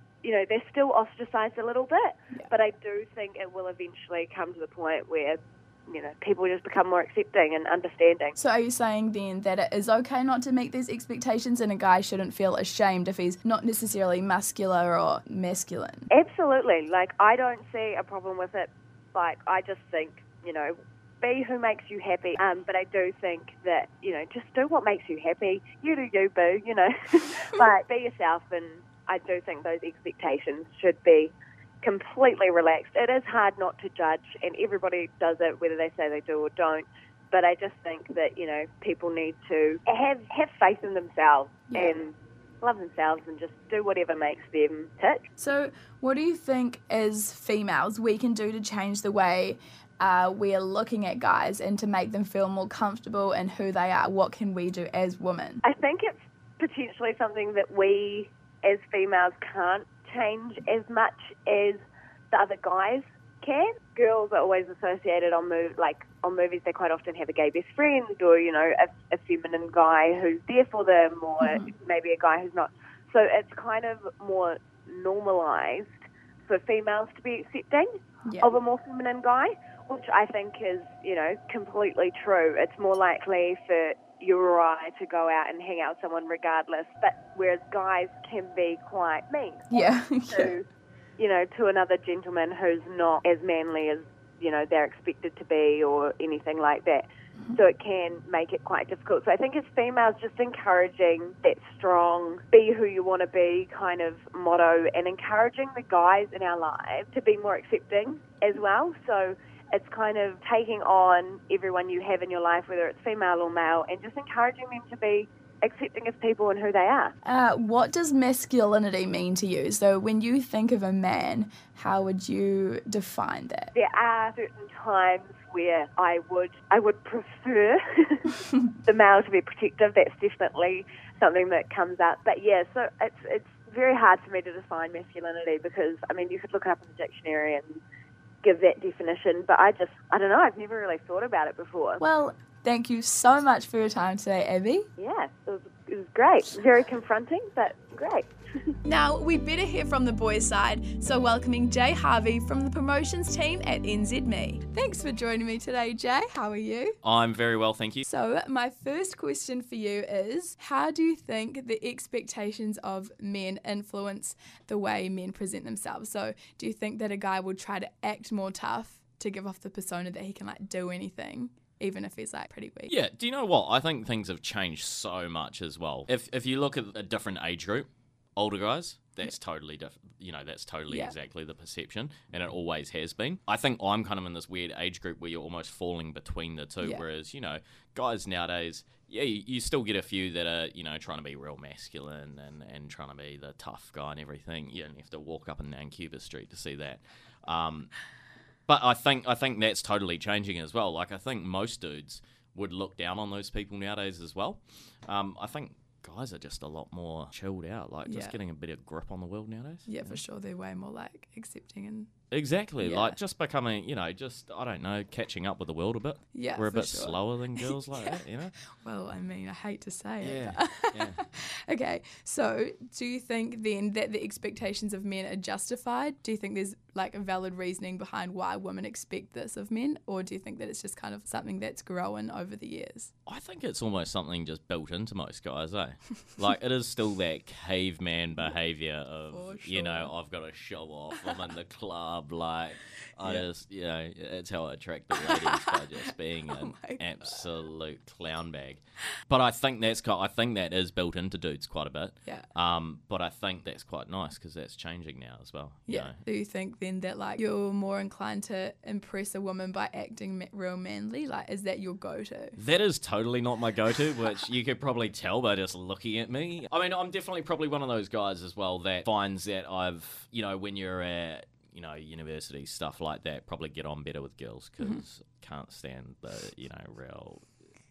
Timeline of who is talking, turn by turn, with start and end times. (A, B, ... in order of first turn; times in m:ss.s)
0:00.2-0:08.4 A
0:08.4-0:16.1 B
0:16.1-0:45.2 A
0:41.7-0:42.0 B
0:45.4-0:55.6 B
0:55.6-1:17.9 A
1:11.4-1:11.7 B
1:18.3-1:18.6 B
1:18.4-1:30.6 A
1:29.7-1:30.5 B
1:31.2-1:57.1 A
1:57.2-2:03.7 B
2:03.7-2:17.8 A
2:18.4-2:22.0 A
2:22.0-2:24.9 B
2:25.0-2:28.7 A
2:28.8-2:37.0 B
2:37.0-2:38.0 C
2:38.0-2:52.9 B
2:52.9-3:17.9 C
3:00.9-3:01.1 B
3:18.7-3:30.2 C
3:28.1-3:28.4 B
3:29.9-3:32.1 B
3:32.3-3:38.6 C
3:32.8-3:33.2 B
3:36.3-3:53.1 B
3:40.2-3:41.2 C
3:53.3-4:16.2 C
3:59.3-4:00.1 B
4:05.1-4:07.4 B
4:15.9-4:22.6 B
4:22.6-4:37.5 C